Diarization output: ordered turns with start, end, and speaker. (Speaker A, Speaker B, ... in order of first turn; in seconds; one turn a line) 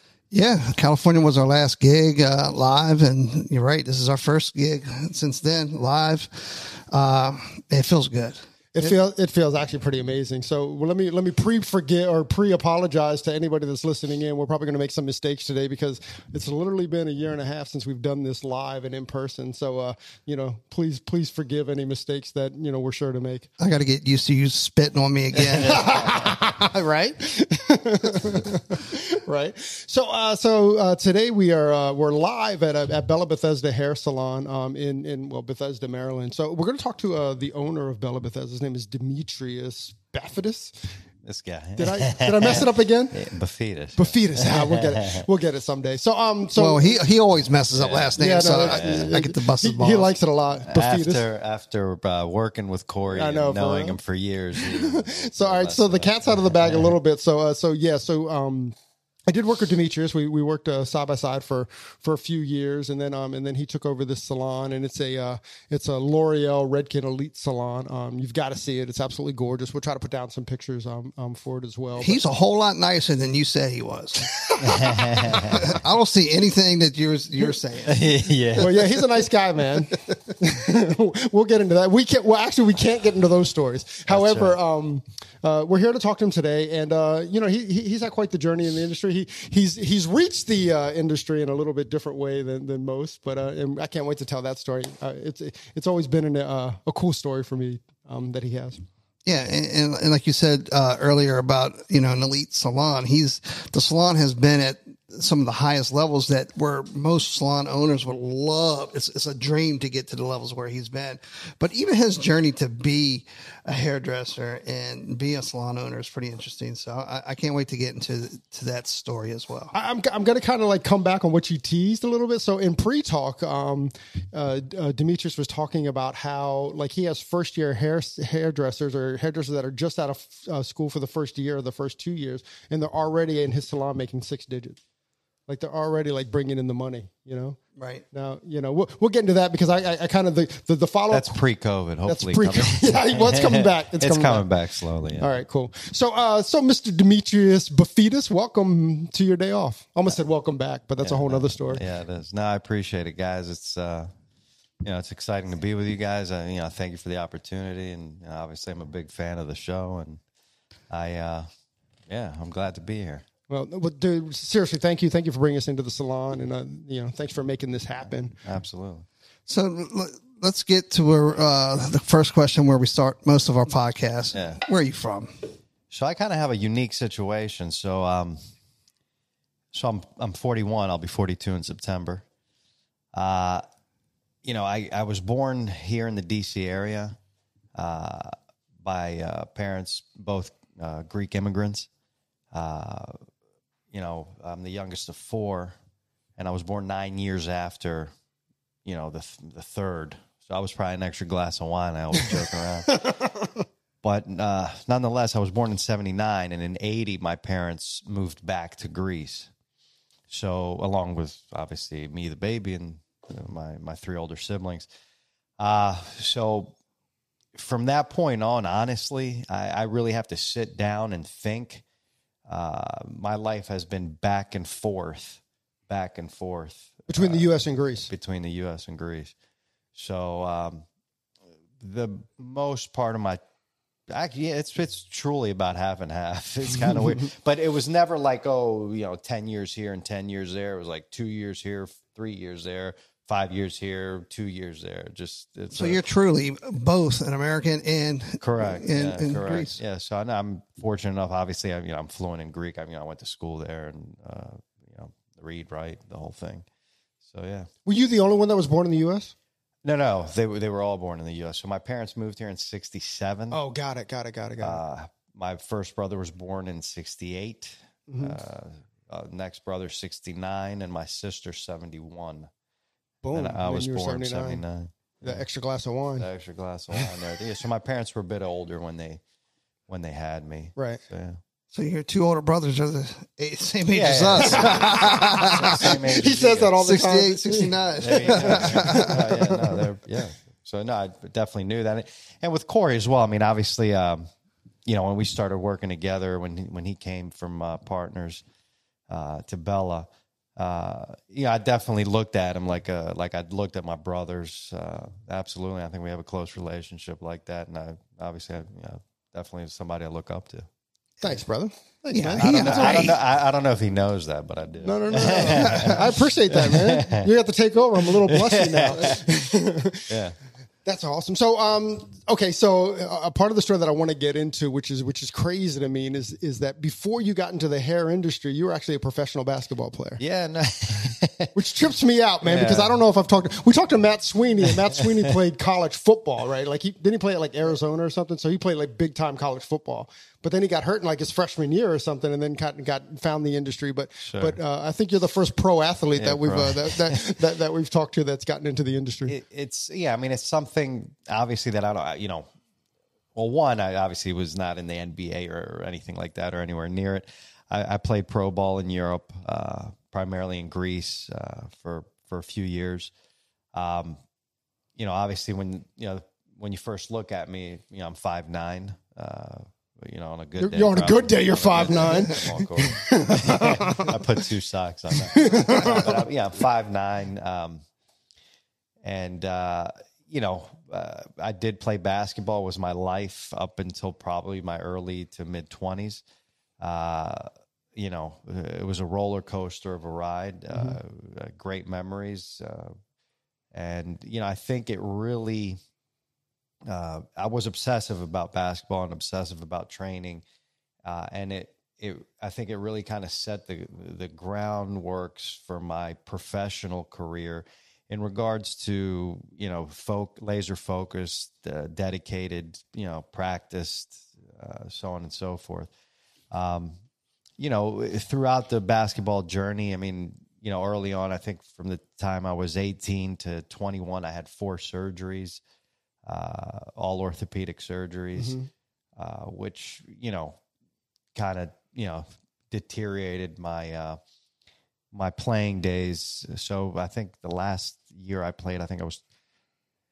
Speaker A: 0.3-8.9
Speaker B: 8.8-23.5
Speaker A: 23.6-25.9
Speaker C: 25.5-26.5
Speaker B: 25.6-41.0
Speaker C: 41.2-45.3
Speaker B: 41.8-43.2
Speaker B: 44.0-47.0
Speaker A: 46.6-50.1
Speaker C: 47.7-49.1
Speaker B: 48.2-51.2
Speaker C: 50.7-57.0
Speaker B: 53.1-54.0
Speaker B: 54.8-58.8
Speaker B: 59.3-72.2
Speaker A: 72.0-78.3
Speaker C: 74.6-75.7
Speaker C: 77.8-78.9
Speaker B: 78.6-98.8
Speaker C: 84.1-84.6
Speaker A: 99.2-119.7
Speaker B: 119.7-134.8
Speaker B: 135.5-137.6
Speaker A: 137.8-138.0
Speaker B: 138.1-141.3
Speaker C: 141.1-145.3
Speaker B: 142.1-144.5
Speaker B: 145.2-151.8
Speaker C: 151.0-154.1
Speaker C: 154.8-160.2
Speaker C: 160.9-161.5
Speaker C: 162.1-163.2
Speaker B: 163.5-168.4
Speaker C: 168.4-169.1
Speaker A: 169.5-175.3
Speaker C: 174.3-174.6
Speaker C: 175.9-178.4
Speaker C: 179.7-182.3
Speaker C: 183.1-183.6
Speaker C: 184.4-187.2
Speaker C: 187.8-191.9
Speaker C: 192.5-193.2
Speaker C: 193.9-195.8
Speaker C: 196.4-198.1
Speaker C: 198.8-203.1
Speaker C: 204.0-209.5
Speaker C: 210.3-214.9
Speaker C: 215.6-216.8
Speaker C: 217.6-221.8
Speaker C: 222.5-229.3
Speaker B: 227.1-228.1
Speaker C: 230.0-230.9
Speaker C: 231.8-233.4
Speaker C: 234.1-246.0
Speaker A: 245.7-249.8
Speaker C: 248.4-256.7
Speaker C: 257.2-257.7
Speaker B: 257.9-259.3
Speaker C: 259.8-263.6
Speaker B: 263.5-264.8
Speaker C: 264.6-272.5
Speaker B: 268.1-268.4
Speaker B: 273.2-274.6
Speaker C: 273.3-275.4
Speaker B: 275.2-276.3
Speaker C: 276.2-279.2
Speaker C: 279.9-281.4
Speaker B: 280.8-281.0
Speaker A: 281.7-286.0
Speaker C: 283.9-286.8
Speaker B: 284.5-289.6
Speaker A: 286.8-289.2
Speaker C: 288.0-294.3
Speaker C: 294.9-298.4
Speaker C: 299.1-310.7
Speaker B: 311.2-313.1
Speaker C: 312.1-317.3
Speaker A: 312.1-313.2
Speaker B: 314.8-320.1
Speaker A: 315.5-316.0
Speaker C: 318.2-319.4
Speaker C: 320.1-320.4
Speaker B: 320.9-330.2
Speaker C: 330.2-331.5
Speaker B: 331.5-349.4
Speaker C: 332.4-332.9
Speaker C: 344.2-344.6
Speaker C: 346.2-347.2
Speaker C: 349.3-352.5
Speaker C: 353.4-363.1
Speaker C: 363.7-364.2
Speaker C: 365.0-377.8
Speaker B: 370.6-374.2
Speaker B: 375.1-376.1
Speaker C: 379.0-386.2
Speaker C: 386.8-392.9
Speaker B: 390.7-391.0
Speaker C: 393.7-395.8
Speaker C: 396.9-400.4
Speaker C: 401.0-415.9
Speaker C: 416.5-417.0
Speaker C: 417.6-425.6
Speaker C: 426.2-428.6
Speaker B: 428.4-428.7
Speaker C: 429.2-430.6
Speaker C: 431.4-434.2
Speaker C: 435.1-439.2